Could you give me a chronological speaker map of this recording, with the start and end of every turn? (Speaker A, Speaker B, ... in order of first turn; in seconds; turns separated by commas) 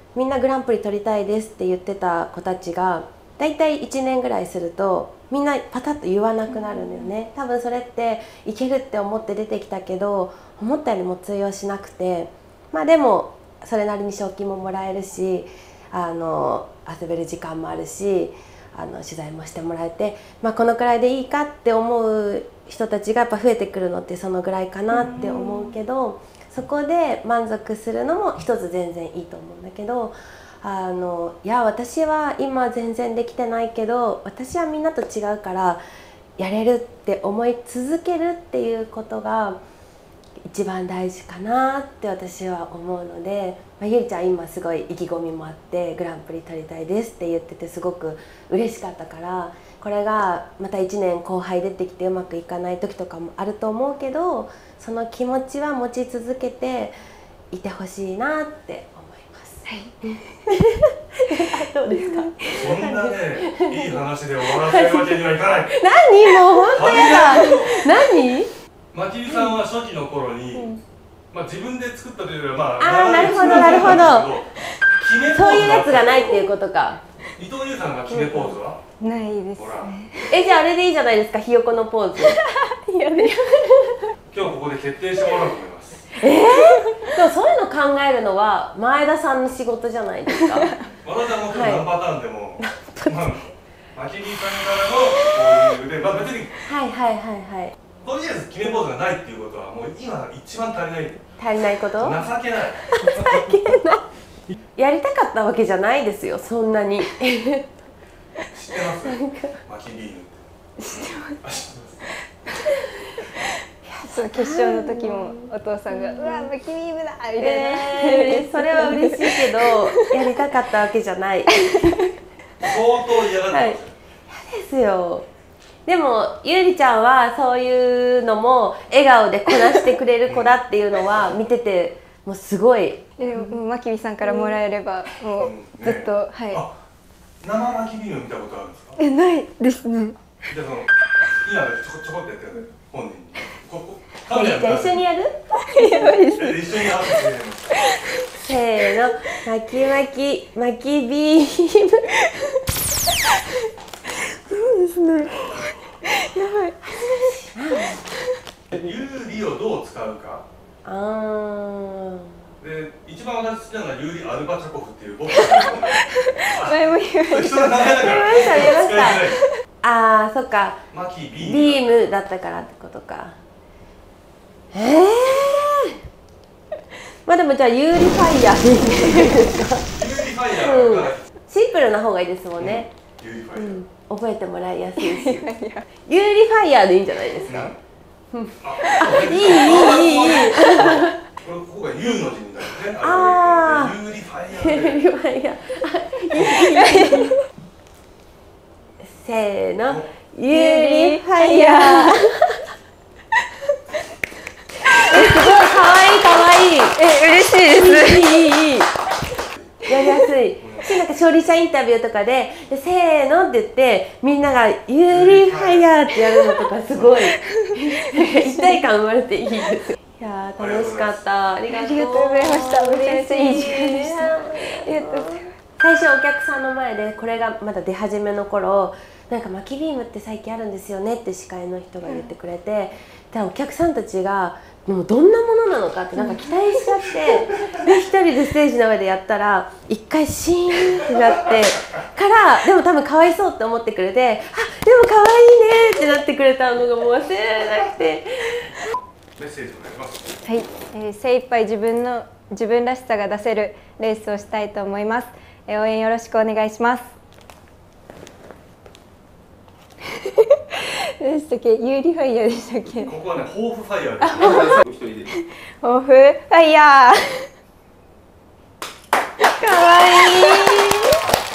Speaker A: 0.1-35.8, Speaker B: 6.5-7.1, Speaker B: 24.9-25.8, Speaker A: 36.4-39.6, Speaker A: 40.5-57.0, Speaker A: 57.5-68.5, Speaker B: 59.6-60.0, Speaker B: 62.0-62.3, Speaker C: 62.4-65.9, Speaker C: 66.6-67.8, Speaker C: 68.9-70.7, Speaker B: 70.5-70.8, Speaker C: 71.3-76.5, Speaker A: 72.8-74.3, Speaker A: 75.3-77.0, Speaker C: 77.3-78.8, Speaker B: 78.1-80.4, Speaker C: 79.6-80.0, Speaker A: 80.3-82.4, Speaker B: 82.3-83.8, Speaker A: 83.1-83.9, Speaker C: 84.3-86.1, Speaker A: 86.2-90.7, Speaker B: 86.2-87.1, Speaker C: 91.0-96.6, Speaker A: 91.5-91.9, Speaker A: 92.6-93.3, Speaker A: 96.6-97.7, Speaker C: 98.0-101.3, Speaker A: 101.4-102.2, Speaker C: 101.9-103.7, Speaker A: 102.9-104.0, Speaker A: 104.7-107.7, Speaker C: 108.5-110.4, Speaker A: 109.0-109.6, Speaker B: 110.8-111.4, Speaker C: 111.4-112.1, Speaker B: 112.4-113.4, Speaker A: 113.8-116.5, Speaker B: 114.0-120.1, Speaker A: 117.4-122.0, Speaker B: 121.6-122.1, Speaker C: 122.6-123.9, Speaker A: 123.5-123.8, Speaker A: 124.3-125.3, Speaker A: 125.8-133.6, Speaker C: 130.2-130.6, Speaker B: 133.2-136.6, Speaker A: 134.2-134.6, Speaker C: 135.4-136.7, Speaker C: 137.4-139.0, Speaker B: 139.0-140.2, Speaker C: 140.5-140.9, Speaker C: 141.4-145.0, Speaker A: 144.3-146.2, Speaker B: 145.6-147.0, Speaker C: 146.3-147.7, Speaker A: 148.4-152.1, Speaker B: 152.2-152.6, Speaker B: 154.4-158.1, Speaker A: 157.5-158.0, Speaker C: 158.7-160.4, Speaker A: 160.8-162.4, Speaker C: 162.6-169.4, Speaker B: 165.6-168.8, Speaker A: 167.9-170.8, Speaker C: 170.9-172.1, Speaker A: 171.4-173.3, Speaker A: 174.7-176.0, Speaker A: 177.2-179.9, Speaker C: 179.9-181.3, Speaker A: 180.6-182.9, Speaker C: 182.6-183.8, Speaker A: 183.5-185.5, Speaker B: 185.0-185.9, Speaker A: 186.1-187.7, Speaker C: 187.4-187.8, Speaker A: 188.3-191.2, Speaker C: 188.6-195.1, Speaker A: 193.0-194.0, Speaker A: 194.5-197.3, Speaker B: 196.4-197.4, Speaker A: 199.0-202.6, Speaker C: 199.8-200.1, Speaker B: 200.5-202.2, Speaker B: 204.8-205.7, Speaker A: 205.0-207.0, Speaker B: 206.9-208.5, Speaker A: 207.7-208.9, Speaker A: 209.9-248.9, Speaker C: 210.6-210.9, Speaker C: 215.1-215.9, Speaker B: 217.5-218.7, Speaker C: 220.6-221.2, Speaker B: 221.7-225.6, Speaker B: 236.2-236.5, Speaker C: 249.4-250.3, Speaker B: 250.4-257.1, Speaker B: 260.1-263.1, Speaker C: 263.0-265.0, Speaker B: 264.2-267.5, Speaker A: 269.5-271.1, Speaker B: 270.1-270.8